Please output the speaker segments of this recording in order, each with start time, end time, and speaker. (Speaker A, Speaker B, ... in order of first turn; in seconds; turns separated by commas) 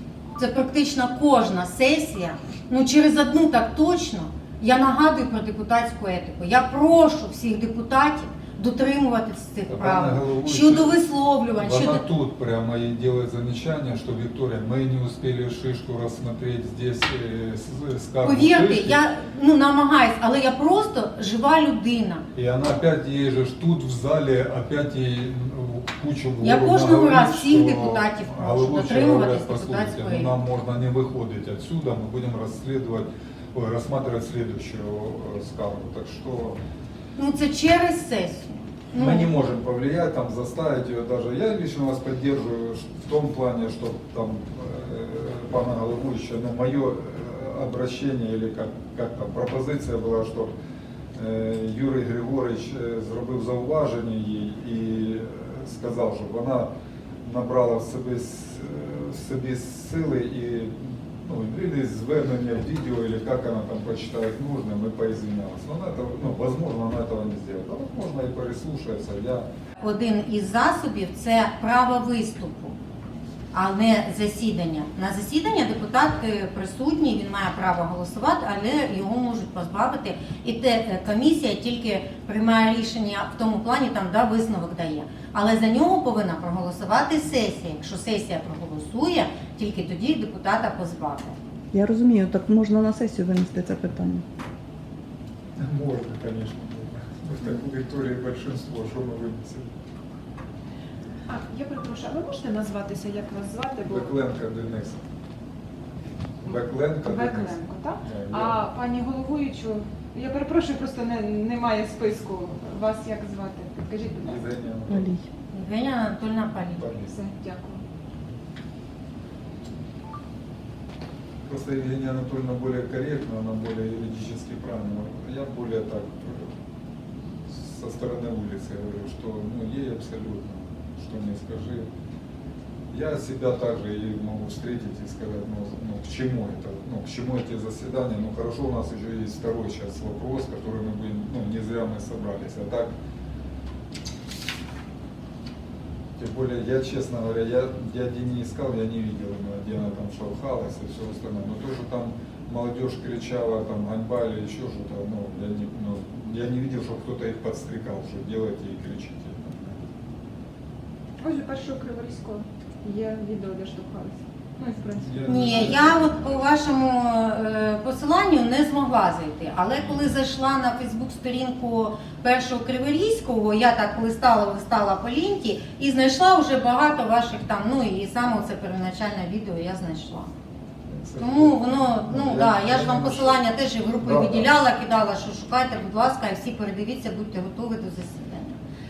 Speaker A: 0.4-12.0, Speaker B: 9.7-11.0, Speaker B: 11.5-19.0, Speaker A: 18.2-22.2, Speaker B: 22.3-36.6, Speaker A: 26.4-30.3, Speaker A: 37.1-39.3, Speaker B: 38.9-50.5, Speaker B: 51.1-56.7, Speaker B: 57.2-69.5, Speaker A: 69.8-72.7, Speaker A: 73.5-91.3, Speaker C: 91.7-94.2, Speaker B: 95.6-99.7, Speaker D: 101.3-104.1, Speaker B: 103.8-105.0, Speaker B: 106.4-108.6, Speaker D: 107.0-114.4, Speaker B: 114.2-115.1, Speaker C: 114.9-115.2, Speaker A: 115.5-116.8, Speaker B: 116.8-117.2, Speaker D: 117.1-117.8, Speaker B: 121.5-126.5, Speaker B: 127.5-131.9, Speaker B: 132.9-142.9, Speaker B: 146.2-159.9, Speaker D: 161.2-165.8, Speaker B: 164.9-166.7, Speaker A: 165.2-180.3, Speaker B: 180.9-183.4, Speaker A: 181.2-188.6, Speaker B: 184.0-184.5